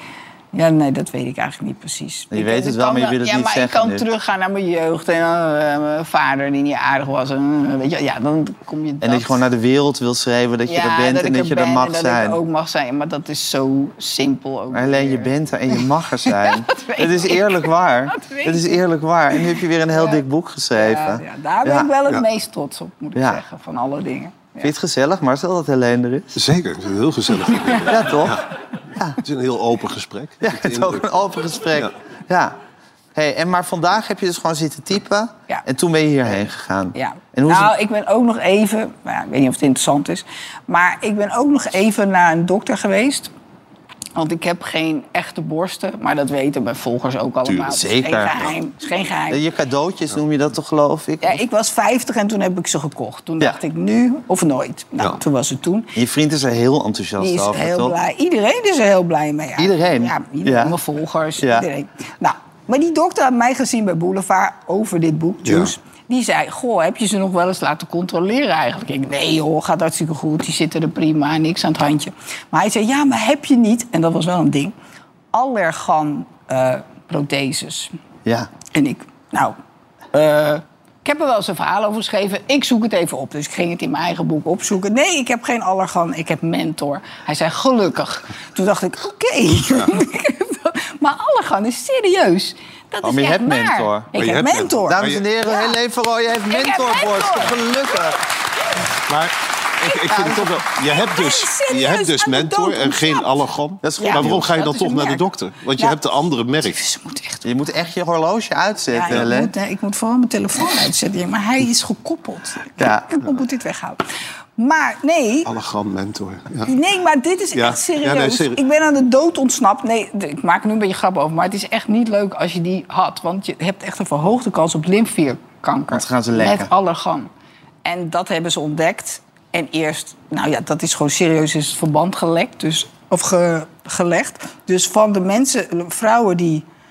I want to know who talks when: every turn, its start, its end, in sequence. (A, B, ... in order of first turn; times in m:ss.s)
0:00.5-0:09.4 A
0:02.3-0:04.1 B
0:09.0-0:12.4 B
0:10.7-0:18.8 A
0:14.7-0:21.9 B
0:19.4-0:20.2 A
0:20.8-0:24.7 A
0:23.2-0:23.4 B
0:24.6-0:26.4 B
0:26.4-0:28.4 C
0:27.9-0:28.4 B
0:29.2-0:31.1 C
0:30.4-0:32.6 B
0:33.2-0:37.7 B
0:37.0-0:43.3 A
0:44.2-0:49.4 A
0:47.5-0:47.8 C
0:47.6-0:48.6 B
0:49.3-0:51.4 B
0:51.2-0:55.9 A
0:56.0-0:58.0 B
0:57.2-1:14.7 A
0:59.6-1:00.8 B
1:01.4-1:01.7 B
1:05.4-1:05.7 C
1:15.3-1:17.9 A
1:18.2-1:18.5 B
1:18.7-1:19.6 A
1:20.1-1:35.8 A
1:33.0-1:34.1 B
1:34.2-1:35.2 C
1:34.9-1:38.2 B
1:36.5-1:38.0 A
1:39.1-1:46.8 C
1:39.9-1:43.4 A
1:40.1-1:40.4 B
1:43.8-1:44.4 B
1:44.0-1:46.0 A
1:46.6-1:47.5 A
1:47.4-1:49.5 B
1:48.9-1:54.0 A
1:52.8-1:53.1 B
1:54.6-1:55.5 A
1:55.4-1:56.7 C
1:56.7-2:07.3 A
1:57.5-1:58.6 C
2:05.9-2:06.7 B
2:07.8-2:16.6 A